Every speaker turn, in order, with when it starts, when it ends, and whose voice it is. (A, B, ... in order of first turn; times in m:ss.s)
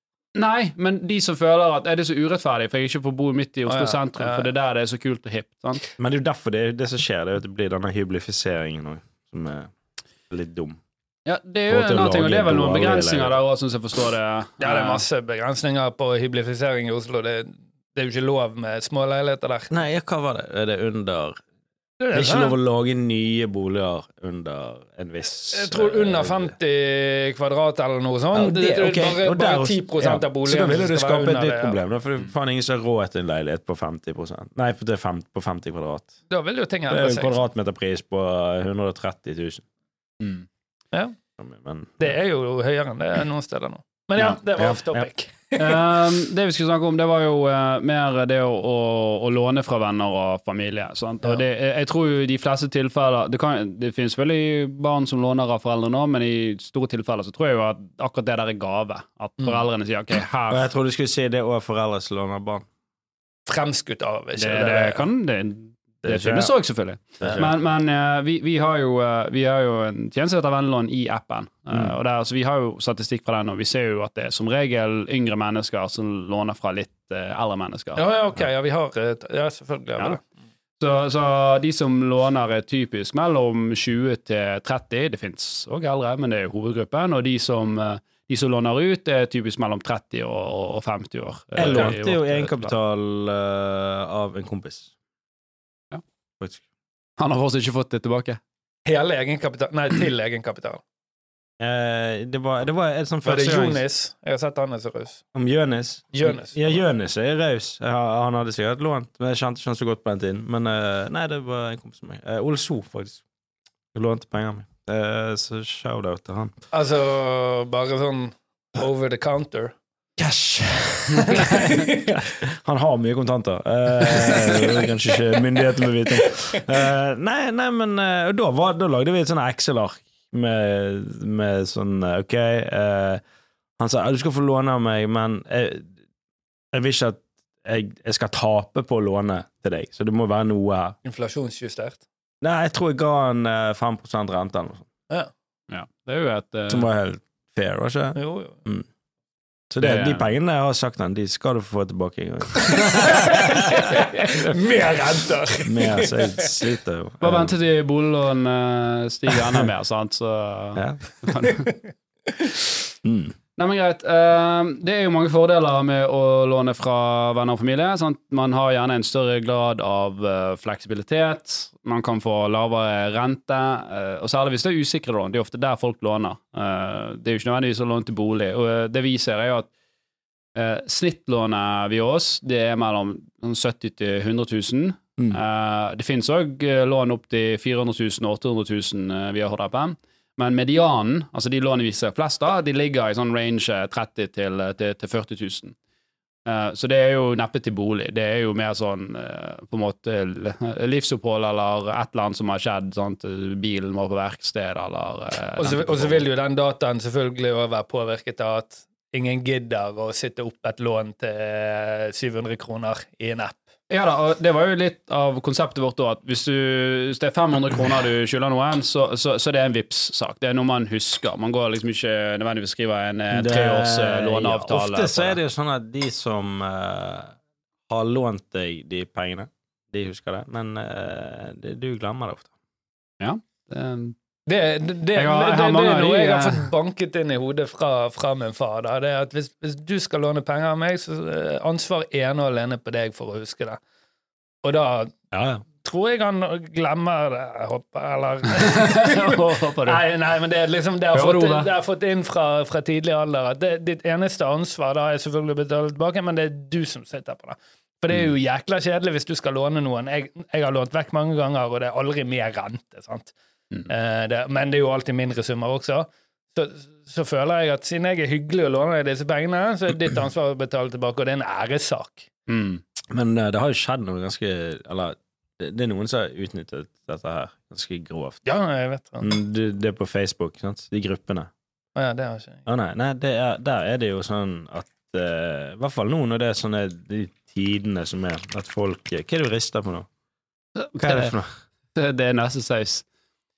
0:00.4-0:05.8 A
0:03.7-0:04.5 B
0:06.0-0:09.7 C
0:10.3-0:10.8 C
0:11.3-0:15.0 A
0:11.7-0:13.4 C
0:14.6-0:19.7 B
0:19.7-0:21.4 C
0:22.0-0:22.6 B
0:22.1-0:26.5 C
0:25.5-0:31.8 B
0:28.3-0:36.1 C
0:36.3-0:37.4 B
0:36.9-0:39.6 C
0:40.2-0:40.5 A
0:41.4-0:42.1 C
0:42.0-0:45.9 B
0:44.6-0:45.1 C
0:45.6-1:00.7 A
1:00.5-1:02.6 C
1:03.5-1:05.1 B
1:04.4-1:18.0 A
1:06.0-1:06.5 C
1:07.2-1:07.5 C
1:18.0-1:20.2 B
1:20.8-1:32.7 A
1:31.6-1:34.9 C
1:37.2-1:38.4 A
1:38.9-1:40.8 B
1:41.6-1:43.8 C
1:43.2-1:45.2 B
1:45.3-1:53.2 C
1:46.1-1:46.8 B
1:53.9-1:56.5 C
1:56.7-1:59.8 B
2:00.2-2:13.2 C
2:01.3-2:02.2 B
2:04.5-2:04.8 B
2:13.8-2:15.9 C
2:16.7-2:21.0 C
2:21.0-2:22.0 B
2:22.4-2:24.9 C
2:25.7-2:26.9 A
2:26.7-2:28.9 C
2:28.2-2:28.6 B
2:29.7-2:34.6 C
2:29.8-2:30.3 A
2:33.0-2:36.6 B
2:35.6-2:37.5 C
2:37.2-2:41.7 A
2:40.8-2:41.0 C
2:43.0-2:43.4 C
2:43.6-2:59.7 A
3:00.6-3:15.8 A
3:16.5-3:26.2 A
3:25.6-3:33.6 B
3:33.9-3:45.4 A
3:43.3-3:47.4 C
3:47.9-3:52.5 C
3:53.2-3:54.2 A
3:54.5-4:03.8 B
3:55.2-3:56.7 A
4:04.6-4:05.2 B
4:05.3-4:05.6 C
4:05.8-4:32.3 B
4:08.5-4:10.0 A
4:11.1-4:11.7 A
4:32.5-4:32.8 A
4:33.1-4:38.4 C
4:38.4-4:39.3 B
4:39.2-4:41.5 C
4:42.0-4:42.6 B
4:42.7-4:50.1 C
4:50.8-4:51.3 A
4:51.0-4:51.5 C
4:52.0-4:53.1 A